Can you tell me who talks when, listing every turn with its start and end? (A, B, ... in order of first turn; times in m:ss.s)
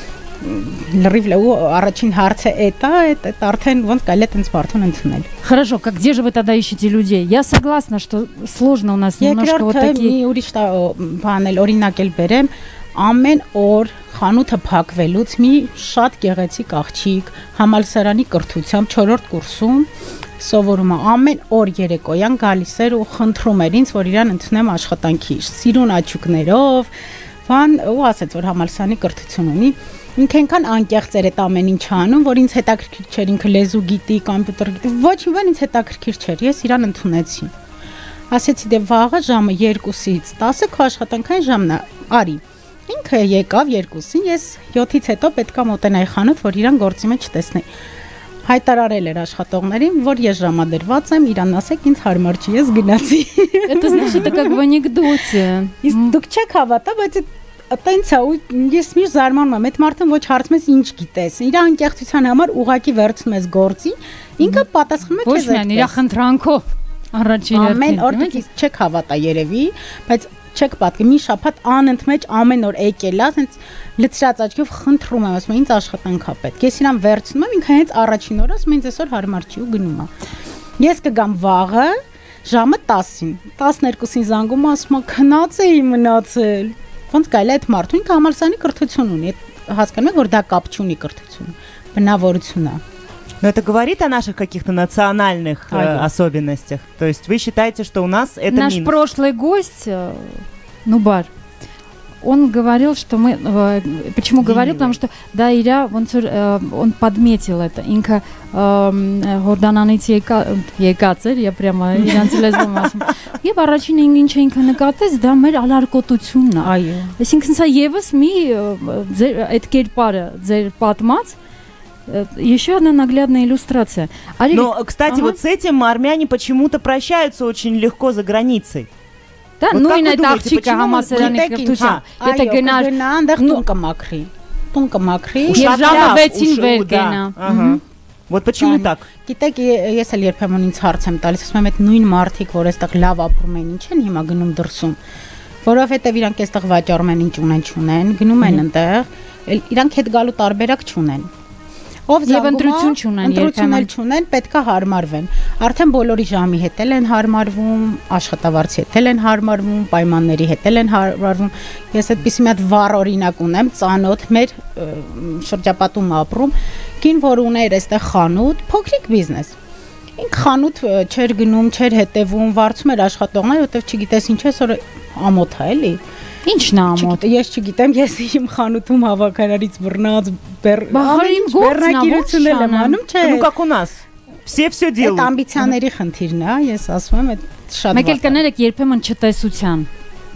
0:00.4-0:05.3 A
0:05.4-0:10.2 B
0:09.2-0:26.9 A
0:27.4-0:37.5 A
0:38.3-0:47.7 A
0:48.4-0:54.6 A
0:53.7-0:56.1 B
0:55.8-1:06.0 A
1:05.2-1:08.4 B
1:07.5-1:20.1 A
1:20.8-1:32.8 A
1:33.4-1:38.9 C
1:35.7-1:36.1 A
1:38.5-1:41.3 B
1:42.2-2:01.4 B
1:44.4-1:44.9 C
1:52.1-1:52.4 A
1:56.6-1:57.2 A
2:02.1-2:05.4 B
2:04.5-2:08.9 C
2:09.6-2:13.6 B
2:09.7-2:12.0 C
2:11.0-2:16.2 A
2:15.5-2:19.0 C
2:15.5-2:17.4 B
2:17.4-2:17.8 A
2:18.6-2:25.0 A
2:25.6-2:31.3 A
2:32.1-2:49.6 A
2:32.2-2:33.9 B
2:50.2-2:56.0 A
2:56.5-2:57.2 B
2:56.9-3:03.5 A
3:00.9-3:03.0 B
3:03.2-3:05.3 C
3:05.0-3:08.4 A
3:07.9-3:09.9 B